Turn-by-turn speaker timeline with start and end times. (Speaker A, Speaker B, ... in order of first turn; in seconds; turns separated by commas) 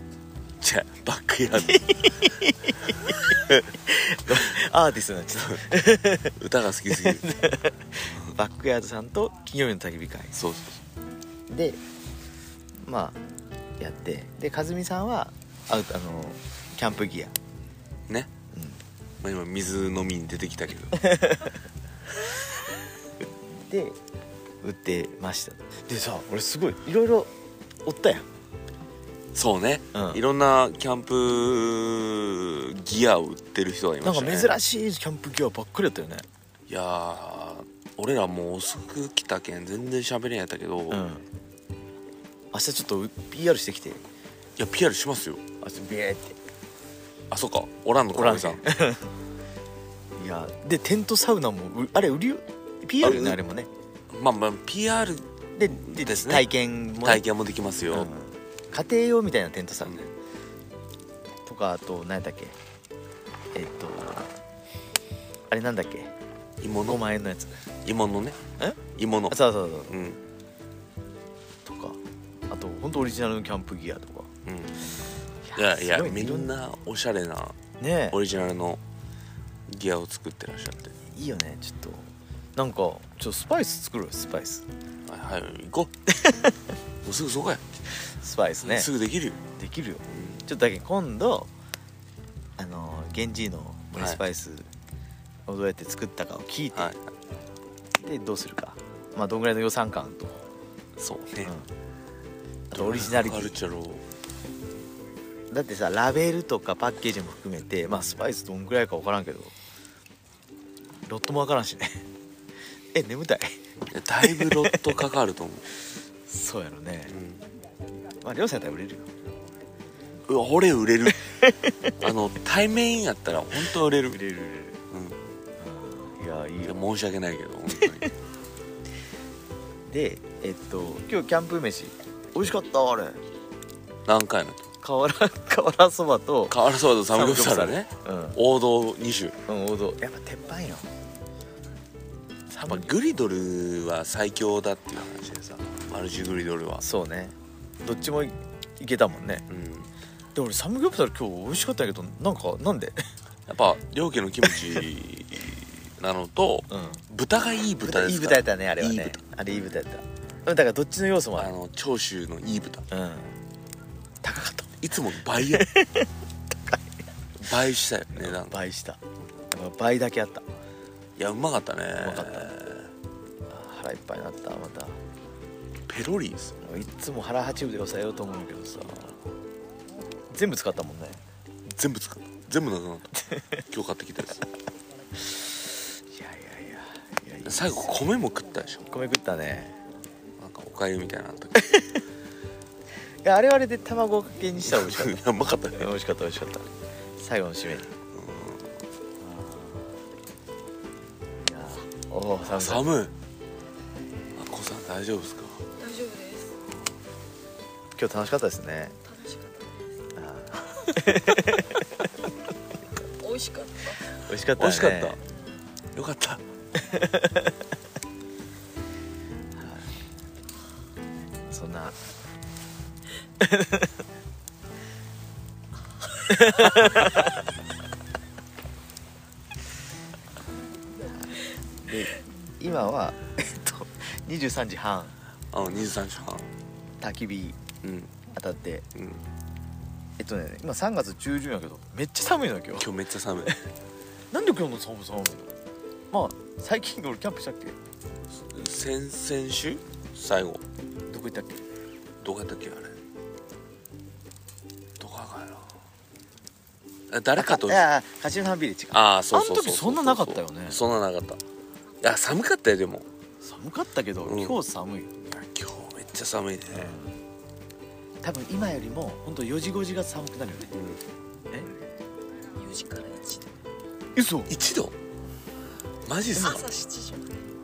Speaker A: 0.6-2.1, Speaker B: 1.6-6.3, Speaker A: 6.3-7.3, Speaker B: 6.9-10.3, Speaker A: 10.3-10.8, Speaker B: 11.5-11.8, Speaker B: 12.8-13.2, Speaker B: 13.8-17.3, Speaker B: 18.5-18.8, Speaker A: 19.2-21.0, Speaker B: 21.0-21.5, Speaker B: 23.6-24.0, Speaker B: 24.6-27.3, Speaker B: 27.8-28.3, Speaker A: 29.3-34.5, Speaker B: 29.9-30.2, Speaker B: 34.0-36.2, Speaker A: 36.7-41.1, Speaker B: 40.9-41.2, Speaker B: 42.5-44.0, Speaker A: 44.6-45.4, Speaker B: 45.6-46.4, Speaker A: 47.3-48.6, Speaker B: 48.1-49.1, Speaker B: 50.2-53.7, Speaker A: 53.0-53.4, Speaker A: 54.1-58.1, Speaker B: 55.5-57.2, Speaker B: 57.9-60.1, Speaker A: 59.8-60.1, Speaker B: 61.4-62.6, Speaker B: 63.5-64.3, Speaker B: 65.5-66.1, Speaker A: 66.6-67.0, Speaker B: 66.8-67.5, Speaker A: 67.8-68.4, Speaker A: 68.9-69.4, Speaker B: 69.3-69.9, Speaker A: 69.9-70.2, Speaker B: 71.6-72.0, Speaker B: 72.5-74.3, Speaker A: 74.5-74.8, Speaker B: 75.4-76.5, Speaker A: 75.5-77.6, Speaker B: 77.8-78.2, Speaker A: 78.1-78.8, Speaker A: 79.7-80.9, Speaker B: 81.1-84.7, Speaker A: 85.1-85.9, Speaker B: 86.2-86.5, Speaker A: 87.0-87.6, Speaker B: 88.0-88.9, Speaker A: 88.6-89.4, Speaker B: 89.5-91.5, Speaker A: 90.1-90.4, Speaker B: 92.6-94.7, Speaker B: 95.5-96.9, Speaker A: 96.7-97.1, Speaker B: 98.0-100.4, Speaker A: 101.0-101.5, Speaker B: 101.4-101.7, Speaker B: 102.7-103.6, Speaker A: 102.7-104.0, Speaker B: 105.5-109.5, Speaker B: 111.0-112.0, Speaker B: 112.9-113.6, Speaker A: 113.9-115.7, Speaker B: 114.2-114.9, Speaker B: 116.3-117.2, Speaker A: 117.1-117.4, Speaker B: 118.2-119.1, Speaker A: 120.3-121.2, Speaker B: 121.2-122.0, Speaker A: 122.0-124.2, Speaker B: 124.1-124.8, Speaker A: 124.9-125.2, Speaker B: 125.6-126.8, Speaker A: 126.6-128.1, Speaker B: 129.8-133.2, Speaker A: 134.1-134.6, Speaker B: 134.8-136.6, Speaker A: 136.5-139.3, Speaker B: 137.1-138.4, Speaker B: 139.5-140.9, Speaker B: 142.5-142.9, Speaker A: 142.6-146.8, Speaker B: 146.8-149.4, Speaker A: 149.5-149.9, Speaker B: 150.3-153.0, Speaker A: 153.5-159.2, Speaker B: 156.7-157.0, Speaker B: 157.8-161.5, Speaker A: 161.3-162.8, Speaker B: 162.9-163.3, Speaker B: 164.2-164.8, Speaker A: 164.8-165.7, Speaker B: 165.5-166.1, Speaker A: 167.4-168.6, Speaker B: 168.1-169.0, Speaker B: 169.5-170.4, Speaker A: 171.2-172.9, Speaker B: 172.0-172.6, Speaker B: 173.5-175.0, Speaker A: 175.9-176.5, Speaker B: 176.6-179.1, Speaker B: 180.3-181.2, Speaker A: 181.7-183.1, Speaker B: 183.2-183.6, Speaker A: 183.7-184.4, Speaker B: 186.1-188.1, Speaker A: 187.4-188.9, Speaker B: 188.9-189.7, Speaker A: 190.4-191.6, Speaker B: 193.2-195.2, Speaker A: 194.6-195.9, Speaker B: 195.7-197.9, Speaker A: 198.1-198.8, Speaker B: 199.2-199.9, Speaker B: 201.4-202.9, Speaker A: 202.5-203.1, Speaker A: 204.3-205.7, Speaker C: 205.8-206.5, Speaker B: 207.9-209.0, Speaker C: 209.0-210.0, Speaker B: 210.2-211.8, Speaker C: 213.2-214.0, Speaker B: 214.2-215.2, Speaker A: 214.6-215.2, Speaker A: 215.9-216.4, Speaker B: 216.8-217.5, Speaker B: 219.6-219.9, Speaker B: 221.5-222.0, Speaker B: 223.4-223.9, Speaker B: 226.3-227.3, Speaker B: 231.1-235.1, Speaker A: 235.5-236.5, Speaker B: 237.0-237.6, Speaker A: 237.8-238.1, Speaker B: 238.3-238.8, Speaker A: 238.9-239.2, Speaker B: 240.2-242.9, Speaker A: 242.8-243.5, Speaker B: 244.3-245.5, Speaker B: 246.1-247.8, Speaker A: 248.3-250.6, Speaker B: 251.1-251.6, Speaker A: 252.2-253.0, Speaker A: 255.0-255.8, Speaker A: 257.1-257.8, Speaker B: 257.4-260.8, Speaker A: 258.9-261.4, Speaker A: 262.0-263.1, Speaker B: 263.4-265.1, Speaker A: 264.2-264.6, Speaker A: 265.2-267.0, Speaker B: 266.7-267.2, Speaker B: 268.2-270.7, Speaker A: 270.7-271.0, Speaker C: 272.5-273.6, Speaker B: 274.1-274.5, Speaker A: 274.5-274.9, Speaker A: 276.0-276.7, Speaker C: 276.4-277.5